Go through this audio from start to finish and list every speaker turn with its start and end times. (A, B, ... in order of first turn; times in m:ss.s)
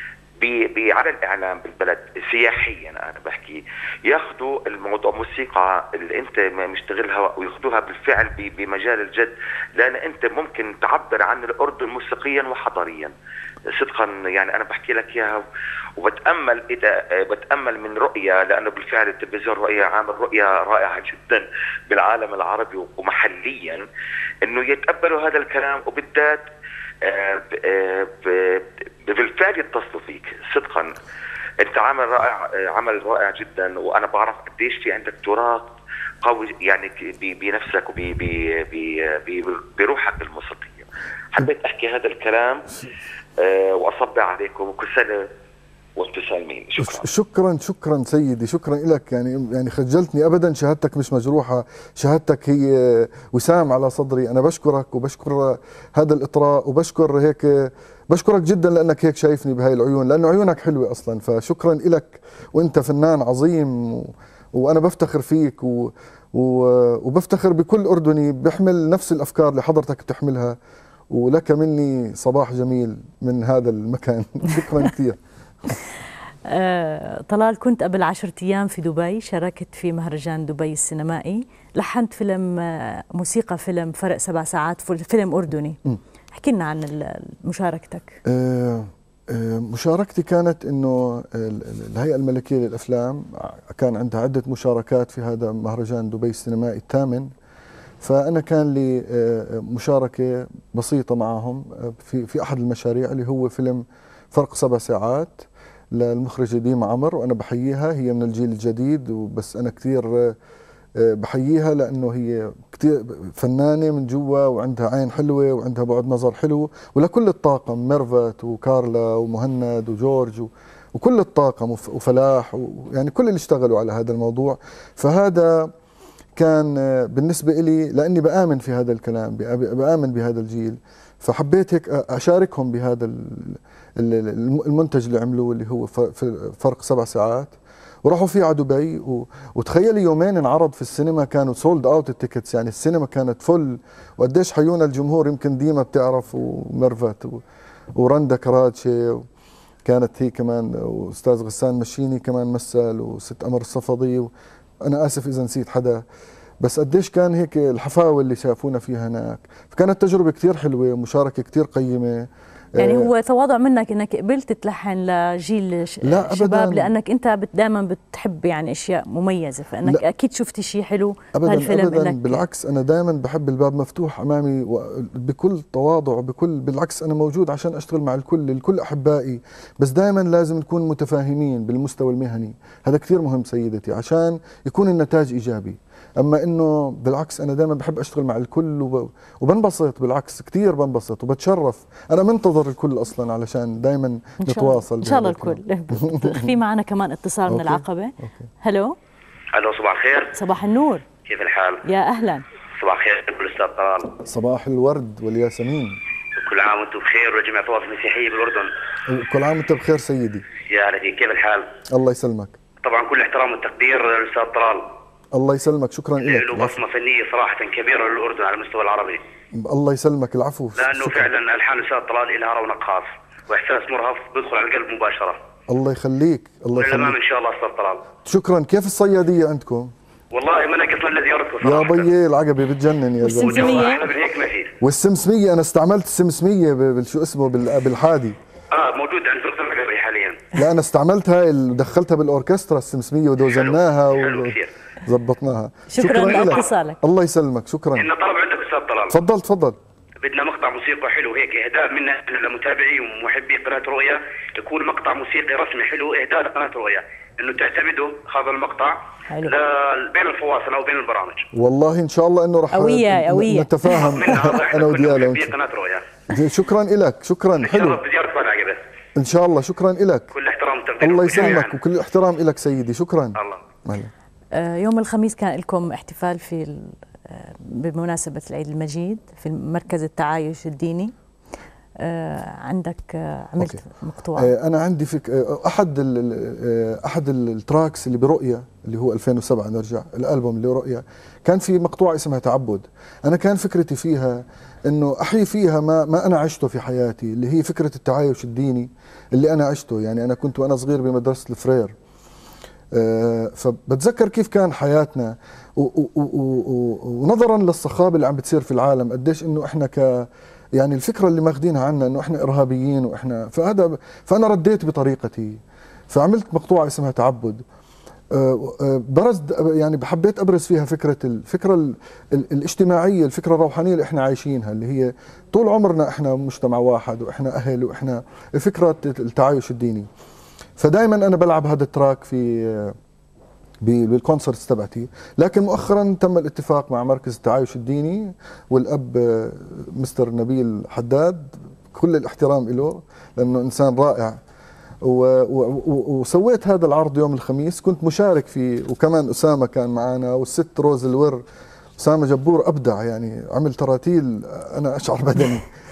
0:00.4-0:13.1 A
0:13.7-0:15.4 A
0:16.0-0:23.8 A
0:24.4-0:26.5 A
0:27.0-0:30.9 A
0:31.6-0:35.7 A
0:36.2-0:42.7 A
0:43.4-0:45.3 A
0:46.0-0:47.0 A
0:46.8-1:10.6 B
1:11.1-1:15.2 B
1:16.5-1:25.8 C
1:26.3-1:28.2 C
1:28.2-1:37.3 B
1:38.0-1:50.4 B
1:51.0-2:05.7 B
2:06.4-2:17.5 B
2:18.0-2:27.4 B
2:28.0-2:29.2 B
2:29.8-2:34.3 B
2:34.8-2:36.0 B
2:36.6-2:43.1 B
2:42.8-2:52.4 C
2:46.0-2:46.9 B
2:51.3-3:16.5 B
3:14.4-3:19.0 C
3:17.5-3:18.5 B
3:19.5-3:20.3 D
3:20.3-3:21.0 C
3:21.2-3:21.8 D
3:21.8-3:22.4 C
3:22.8-3:24.2 D
3:24.2-3:26.0 B
3:26.4-3:28.7 D
3:29.1-3:30.4 B
3:30.6-3:31.7 D
3:31.9-3:32.6 B
3:32.8-3:34.9 D
3:35.3-3:36.8 B
3:36.2-3:39.2 D
3:39.5-3:41.3 B
3:40.8-3:45.4 D
3:45.7-3:47.2 B
3:46.8-3:48.0 D
3:48.2-3:49.9 B
3:50.3-3:52.1 D
3:51.6-3:53.9 B
3:53.2-3:54.1 C
3:53.4-3:54.7 D
3:54.8-3:58.4 B
3:58.7-4:00.5 D
4:00.5-4:08.1 B
4:03.5-4:04.7 D
4:05.9-4:07.0 C
4:08.0-4:09.1 D
4:09.1-4:09.8 B
4:10.2-4:21.5 D
4:21.5-4:25.5 B
4:22.7-4:24.1 C
4:24.1-4:26.0 D
4:26.3-4:28.0 B
4:27.6-4:28.8 D
4:29.2-4:30.3 B
4:30.3-4:31.8 D
4:31.0-4:34.1 B
4:34.5-4:41.1 C
4:42.0-4:44.5 C
4:44.3-5:01.9 B
5:02.9-5:15.6 B
5:16.1-5:17.6 B
5:18.3-5:30.1 B
5:30.8-5:33.0 B
5:33.8-5:44.4 B
5:45.0-5:51.4 B
5:52.0-5:55.7 B